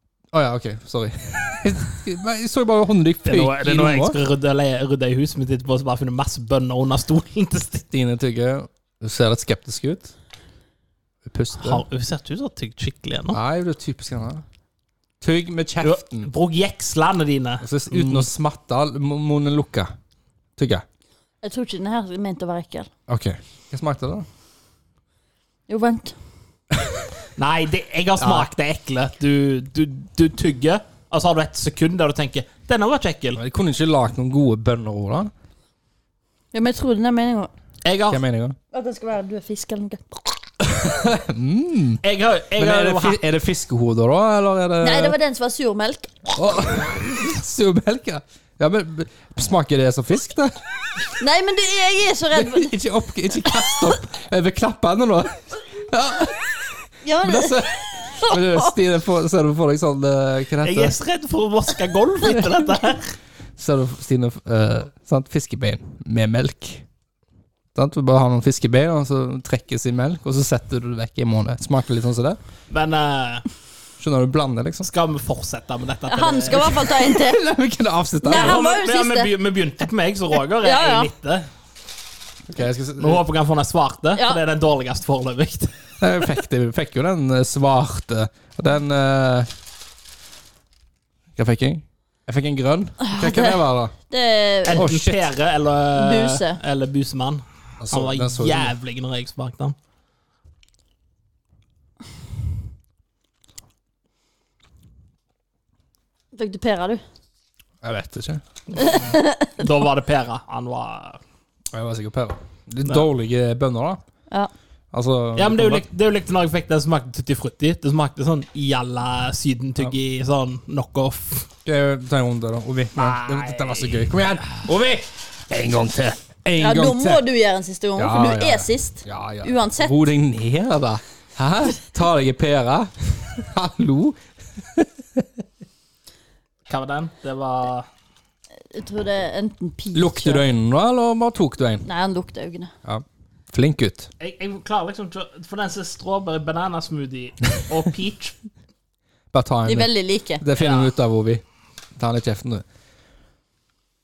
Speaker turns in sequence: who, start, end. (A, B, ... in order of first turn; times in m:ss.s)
0:00.3-0:04.2 A
0:03.2-0:07.9 B
0:07.9-0:10.1 A
0:11.2-0:11.8 A
0:11.6-0:13.4 B
0:13.3-0:14.4 A
0:15.2-0:16.3 A
0:15.8-0:18.3 B
0:17.6-0:19.9 A
0:20.6-0:20.8 A
0:21.4-0:22.9 C
0:23.1-0:24.2 A
0:25.7-0:26.2 C
0:27.4-0:33.4 B
0:28.2-0:28.5 A
0:33.4-0:35.3 A
0:36.5-0:37.5 C
0:37.8-0:38.2 B
0:38.1-0:38.6 A
0:38.7-0:40.3 C
0:40.6-0:42.0 A
0:42.0-0:43.2 B
0:42.6-0:45.2 A
0:44.8-0:46.1 C
0:46.3-0:50.6 A
0:51.2-0:52.7 C
0:52.3-1:01.0 A
0:53.5-0:53.9 C
0:57.0-0:58.7 C
1:00.6-1:03.1 B
1:03.6-1:06.8 A
1:07.7-1:12.4 A
1:12.7-1:13.4 B
1:14.0-1:14.9 A
1:14.8-1:16.9 B
1:16.1-1:17.4 C
1:16.7-1:18.6 A
1:18.2-1:19.3 C
1:18.2-1:21.5 B
1:20.6-1:21.1 C
1:22.5-1:23.2 A
1:23.0-1:25.7 B
1:26.0-1:29.5 A
1:31.4-1:33.9 A
1:33.0-1:34.9 C
1:34.6-1:39.8 B
1:34.7-1:35.2 A
1:35.9-1:36.6 C
1:37.8-1:38.7 A
1:46.3-1:47.0 C
1:47.8-1:48.4 A
1:48.8-1:49.6 C
1:48.8-1:51.2 B
1:51.7-1:54.0 A
1:54.9-1:55.8 A
1:55.4-2:01.5 B
2:01.6-2:07.2 A
2:03.0-2:04.1 B
2:06.6-2:10.0 C
2:08.0-2:15.4 A
2:16.7-2:17.9 B
2:18.7-2:20.4 C
2:19.9-2:21.8 A
2:21.8-2:22.7 C
2:22.8-2:24.1 A
2:24.2-2:28.4 B
2:29.3-2:31.4 A
2:29.6-2:30.4 C
2:30.6-2:30.9 B
2:32.0-2:32.6 A